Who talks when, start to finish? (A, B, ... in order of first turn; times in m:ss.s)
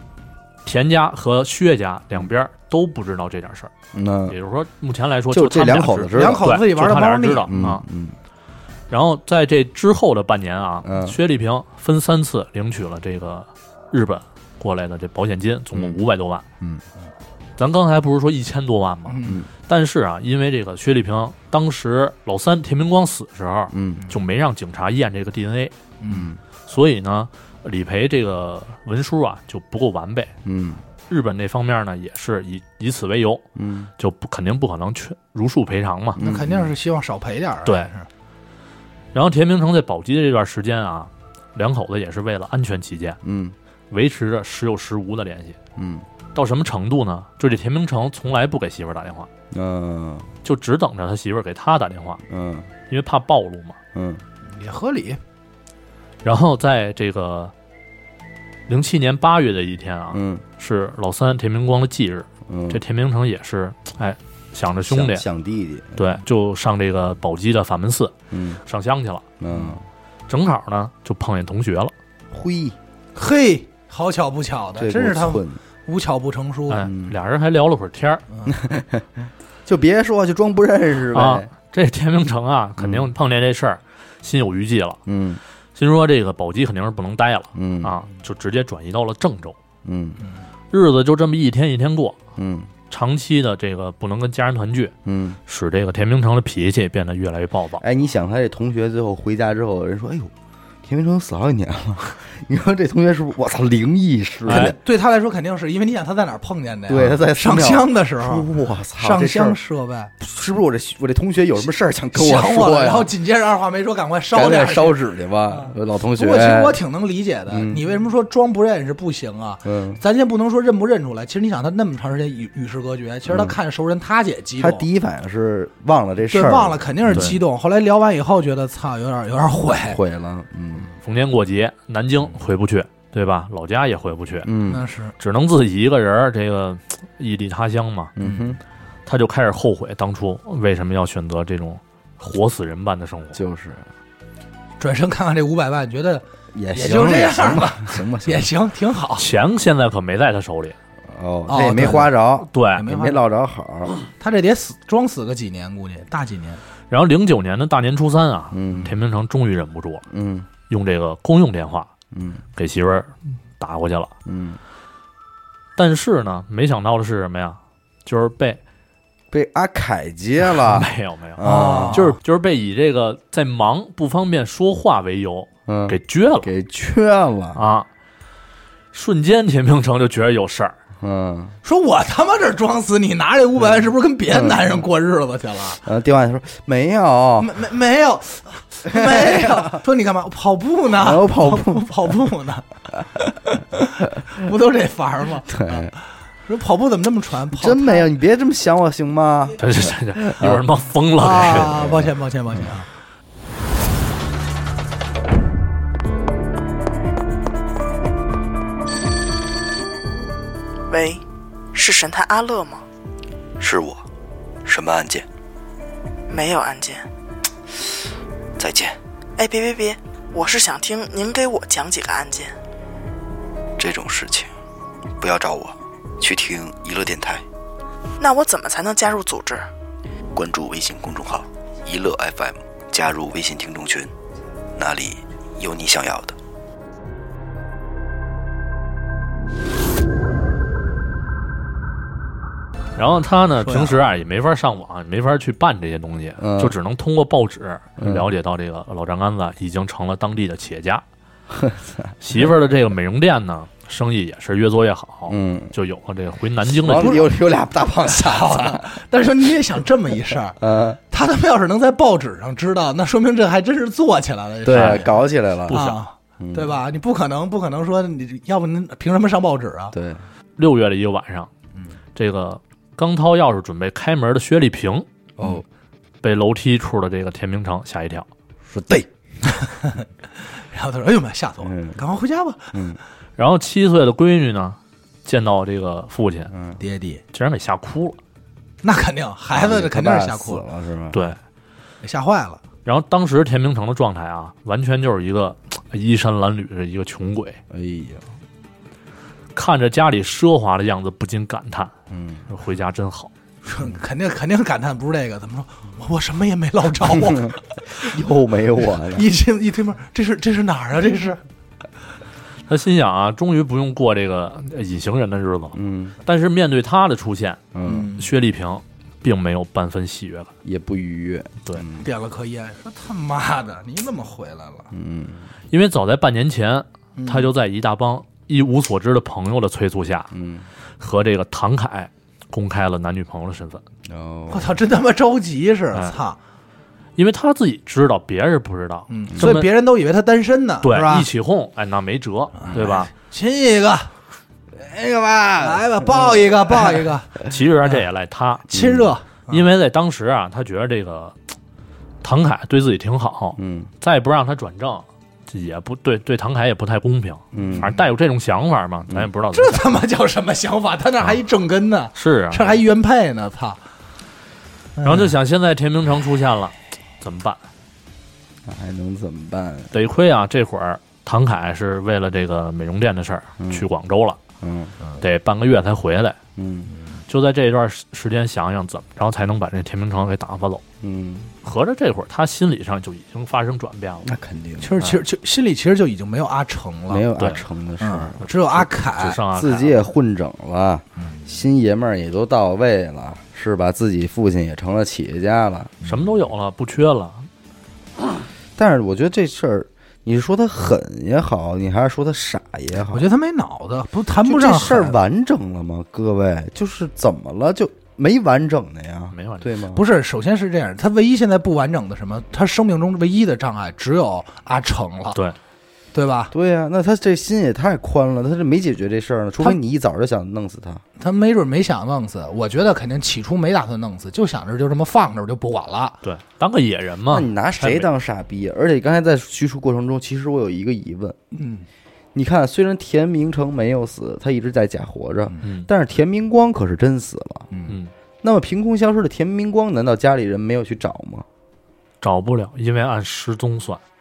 0:00.6-0:03.7 A
0:03.9-0:04.4 B
0:04.3-0:07.8 A
0:05.3-0:06.5 B
0:06.1-0:07.6 C
0:07.5-0:08.2 B
0:08.9-0:16.4 A
0:10.8-0:11.2 B
0:17.6-0:25.8 A
0:19.1-0:19.4 C
0:23.7-0:24.1 B
0:26.0-0:26.3 C
0:26.1-0:26.4 B
0:26.7-0:30.3 A
0:30.4-0:30.8 B
0:31.1-0:33.4 A
0:33.6-0:33.9 B
0:34.0-0:36.2 A
0:36.2-0:36.7 B
0:36.2-0:38.1 C
0:37.6-0:37.9 A
0:39.1-0:43.2 A
0:43.2-0:43.6 B
0:43.9-0:45.6 A
0:45.8-0:46.1 B
0:46.3-0:49.3 A
0:49.5-0:50.3 B
0:50.4-0:52.2 A
0:52.3-0:52.7 B
0:52.9-0:53.8 A
0:53.9-0:54.2 B
0:54.5-0:55.2 C
0:56.2-0:57.5 A
0:58.7-1:05.2 A
1:00.1-1:00.4 B
1:02.5-1:02.8 B
1:04.9-1:06.2 B
1:06.0-1:09.2 A
1:08.3-1:08.6 B
1:09.4-1:09.8 B
1:10.3-1:11.9 A
1:12.3-1:12.8 B
1:13.2-1:16.9 C
1:14.8-1:15.6 B
1:16.7-1:18.2 A
1:16.8-1:17.2 B
1:18.3-1:18.6 C
1:18.5-1:21.5 B
1:21.1-1:25.0 A
1:22.8-1:23.1 B
1:25.1-1:25.4 B
1:25.8-1:29.6 A
1:27.6-1:28.0 B
1:29.8-1:30.2 B
1:30.7-1:32.2 A
1:32.4-1:32.7 B
1:32.9-1:34.9 A
1:35.0-1:35.4 B
1:35.5-1:37.8 A
1:37.8-1:40.3 B
1:40.8-1:44.8 B
1:44.5-1:44.8 A
1:44.5-1:50.1 C
1:46.9-1:49.6 B
1:50.2-1:53.1 B
1:52.1-2:04.9 C
1:54.3-1:56.8 B
1:57.5-1:57.8 B
1:59.6-2:00.0 B
2:03.3-2:03.6 B
2:04.6-2:07.3 B
2:06.3-2:10.0 C
2:07.1-2:07.4 A
2:09.8-2:10.9 B
2:11.0-2:14.5 A
2:14.4-2:14.8 B
2:14.7-2:15.2 C
2:15.2-2:18.1 A
2:18.2-2:18.6 B
2:18.2-2:18.5 C
2:19.1-2:23.4 A
2:23.3-2:23.8 B
2:24.8-2:29.3 C
2:26.5-2:28.5 B
2:29.2-2:30.8 A
2:31.1-2:33.9 B
2:31.5-2:32.2 C
2:32.5-2:32.9 A
2:32.8-2:33.2 C
2:34.2-2:36.6 C
2:36.9-2:40.1 A
2:38.5-2:38.9 B
2:40.1-2:40.5 B
2:40.7-2:41.9 A
2:42.1-2:42.4 B
2:42.6-2:44.1 A
2:44.3-2:44.6 B
2:45.8-2:48.6 A
2:49.3-2:52.1 B
2:50.5-2:56.5 A
2:51.4-2:52.1 C
2:55.7-2:57.6 B
2:57.6-2:57.9 A
2:58.9-3:00.8 A
3:01.0-3:01.6 B
3:01.6-3:05.8 C
3:04.3-3:04.8 B
3:05.8-3:07.5 B
3:07.4-3:18.1 C
3:08.9-3:09.8 B
3:10.9-3:11.9 B
3:15.5-3:15.9 B
3:17.5-3:20.6 B
3:19.6-3:21.8 A
3:21.2-3:22.9 C
3:21.6-3:22.6 B
3:30.9-3:31.2 D
3:31.7-3:32.8 D
3:33.6-3:34.0 E
3:34.7-3:35.3 E
3:36.3-3:37.1 D
3:38.6-3:39.0 E
3:39.4-3:42.5 D
3:43.8-3:44.5 E
3:45.2-3:47.4 E
3:48.2-3:49.7 D
3:50.3-3:54.1 E
3:54.8-3:56.4 E
4:03.0-4:11.0 A
4:03.6-4:04.0 C
4:06.4-4:06.8 B
4:08.0-4:08.2 B
4:11.5-4:12.1 B
4:12.2-4:17.2 A
4:15.3-4:15.7 B
4:16.8-4:18.9 B
4:17.0-4:17.3 C
4:18.0-4:20.6 C
4:20.6-4:21.0 B
4:21.1-4:25.2 C
4:24.6-4:25.8 B
4:24.7-4:25.0 A
4:25.7-4:26.0 A
4:25.7-4:30.0 C
4:26.4-4:26.8 B
4:29.9-4:30.2 B
4:30.6-4:31.5 A
4:32.2-4:35.1 A
4:35.4-4:35.6 B
4:36.2-4:38.3 A
4:38.7-4:39.1 B
4:39.4-4:42.8 C
4:41.6-4:42.0 B
4:42.7-4:43.0 B
4:43.4-4:46.5 A
4:46.5-4:46.8 B
4:46.8-4:47.2 C
4:47.3-4:48.2 A
4:48.8-4:50.6 C
4:49.5-4:51.2 B
4:51.1-4:51.4 A
4:52.0-4:52.6 C
4:52.8-4:57.6 A
4:57.7-4:58.2 B
4:59.6-5:01.9 A
5:02.1-5:02.4 B
5:02.5-5:03.3 A
5:03.6-5:08.2 C
5:07.1-5:09.3 B
5:09.0-5:11.4 C
5:12.7-5:20.5 A
5:15.8-5:16.2 B
5:17.7-5:18.1 B
5:17.8-5:18.3 C
5:20.6-5:22.1 B
5:22.0-5:24.9 C
5:24.9-5:25.5 B
5:25.7-5:30.3 A
5:27.2-5:27.5 C
5:30.3-5:30.7 B
5:31.0-5:33.8 A
5:34.1-5:34.8 B
5:34.5-5:36.4 C
5:37.2-5:39.7 A
5:39.1-5:41.3 C
5:40.8-5:43.1 A
5:42.6-5:44.1 C
5:44.7-5:47.1 B
5:45.6-5:47.4 C
5:47.5-5:48.7 A
5:48.7-5:49.6 C
5:48.7-5:49.1 B
5:49.5-5:51.4 A
5:52.2-5:59.9 A
5:53.6-5:53.9 B
5:57.5-5:57.9 B
5:57.6-5:58.0 C
5:59.5-6:03.8 C
6:02.2-6:02.8 A
6:05.0-6:05.4 C
6:05.0-6:07.6 A
6:08.7-6:09.9 B
6:09.9-6:14.4 A
6:13.6-6:13.9 B
6:14.6-6:15.0 B
6:15.2-6:16.4 A
6:16.6-6:16.9 B
6:17.3-6:20.8 A
6:21.0-6:21.5 B
6:21.6-6:24.3 A
6:24.2-6:25.0 B
6:24.8-6:27.3 C
6:27.1-6:28.5 B
6:27.4-6:27.6 A
6:28.0-6:29.4 C
6:28.4-6:30.0 A
6:29.5-6:36.0 B
6:31.2-6:31.5 C
6:36.0-6:37.5 A
6:38.8-6:43.3 B
6:43.1-6:45.2 C
6:44.4-6:50.0 B
6:49.3-6:49.7 A
6:49.9-6:55.4 C
6:56.1-6:56.5 C
6:56.5-7:01.0 B
7:01.2-7:06.2 C
7:06.2-7:08.1 A
7:07.3-7:11.4 B
7:11.5-7:11.9 C
7:12.3-7:17.7 B
7:15.6-7:15.9 A
7:18.4-7:21.5 B
7:22.2-7:24.0 A